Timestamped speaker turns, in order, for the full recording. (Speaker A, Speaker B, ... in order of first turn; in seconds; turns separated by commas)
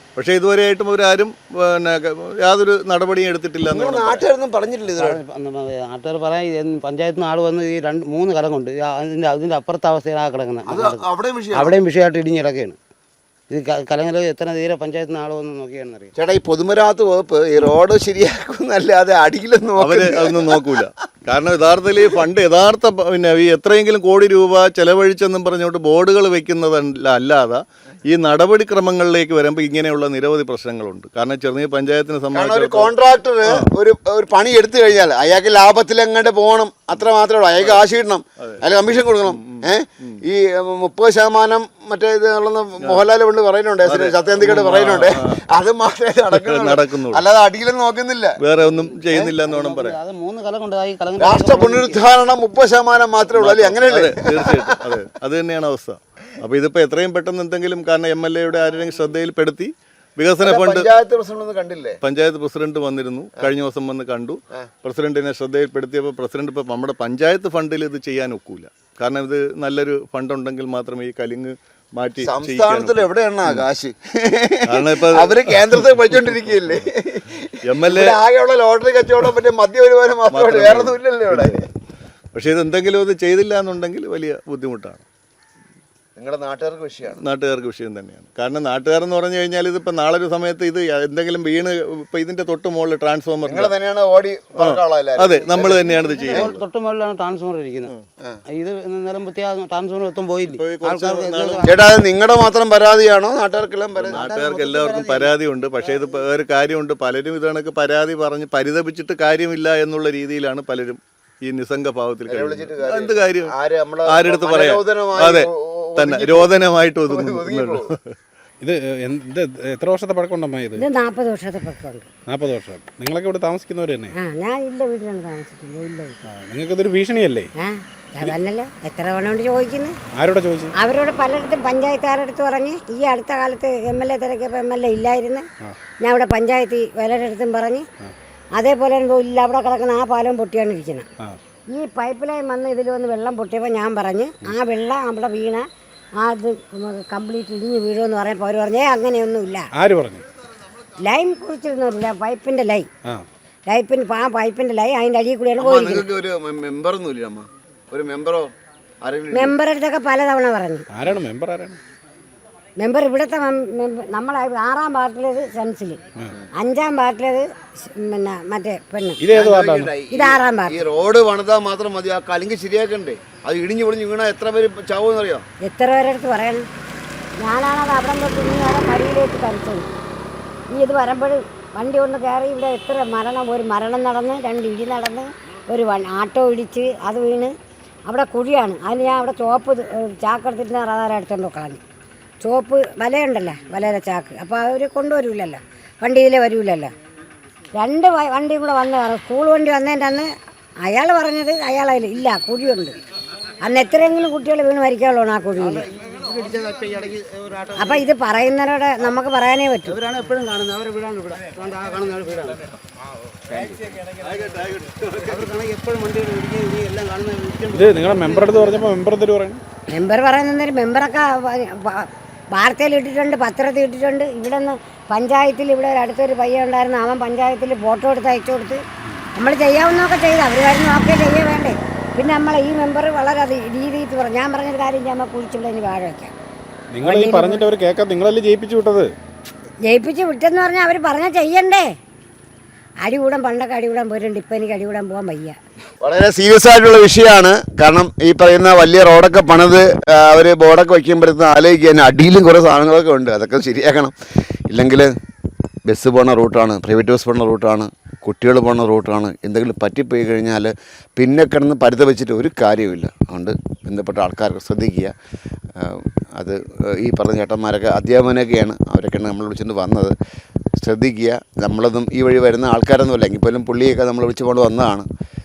Speaker A: 0.2-4.2, Speaker B: 3.7-5.2, Speaker C: 4.9-12.8, Speaker B: 10.7-11.8, Speaker C: 13.5-16.1, Speaker B: 16.2-20.9, Speaker A: 19.8-32.9, Speaker B: 32.3-48.4, Speaker A: 38.4-38.6, Speaker A: 39.2-40.2, Speaker A: 42.8-43.0, Speaker A: 43.9-45.4, Speaker A: 46.3-47.2, Speaker A: 48.4-50.0, Speaker C: 48.7-52.0, Speaker B: 51.2-55.0, Speaker A: 53.4-60.9, Speaker B: 60.4-62.0, Speaker A: 62.0-73.7, Speaker B: 72.2-81.7, Speaker A: 74.7-76.8, Speaker A: 77.6-78.2, Speaker A: 80.3-81.6, Speaker A: 82.3-85.0, Speaker B: 86.2-87.2, Speaker A: 87.2-93.7, Speaker B: 93.4-96.6, Speaker A: 94.6-96.6, Speaker C: 96.0-97.9, Speaker C: 98.5-101.8, Speaker A: 100.5-101.7, Speaker B: 101.6-104.3, Speaker A: 104.0-113.5, Speaker C: 104.1-106.2, Speaker B: 112.3-118.0, Speaker A: 114.1-118.2, Speaker D: 118.6-120.8, Speaker E: 120.8-122.1, Speaker D: 122.3-124.2, Speaker E: 124.2-126.2, Speaker D: 126.3-127.5, Speaker E: 127.6-130.0, Speaker D: 130.1-130.7, Speaker E: 130.8-135.5, Speaker E: 136.0-137.9, Speaker E: 138.6-141.1, Speaker E: 141.7-145.6, Speaker E: 146.2-149.7, Speaker D: 149.7-150.2, Speaker E: 151.0-152.9, Speaker E: 153.7-156.1, Speaker B: 155.6-159.6, Speaker E: 159.3-160.9, Speaker D: 160.9-161.8, Speaker E: 162.8-166.0, Speaker E: 166.6-169.2, Speaker D: 169.2-169.9, Speaker B: 169.3-175.5, Speaker E: 170.1-170.8, Speaker E: 175.6-176.7, Speaker E: 177.4-179.9, Speaker E: 180.7-187.5, Speaker E: 188.1-191.8, Speaker E: 192.4-196.9, Speaker E: 197.7-200.3, Speaker E: 200.8-203.0, Speaker E: 203.6-205.9, Speaker C: 205.6-208.1, Speaker E: 207.8-210.0, Speaker C: 209.9-212.8, Speaker C: 213.5-214.1, Speaker A: 214.2-215.4, Speaker C: 215.2-218.8, Speaker D: 217.8-219.6, Speaker E: 219.9-228.8, Speaker E: 229.3-236.3, Speaker D: 236.9-239.1, Speaker E: 237.0-237.7, Speaker E: 239.8-241.9, Speaker E: 243.0-245.6, Speaker B: 246.0-254.1, Speaker B: 254.7-255.1, Speaker B: 255.9-265.1, Speaker B: 265.8-270.1, Speaker B: 270.8-275.1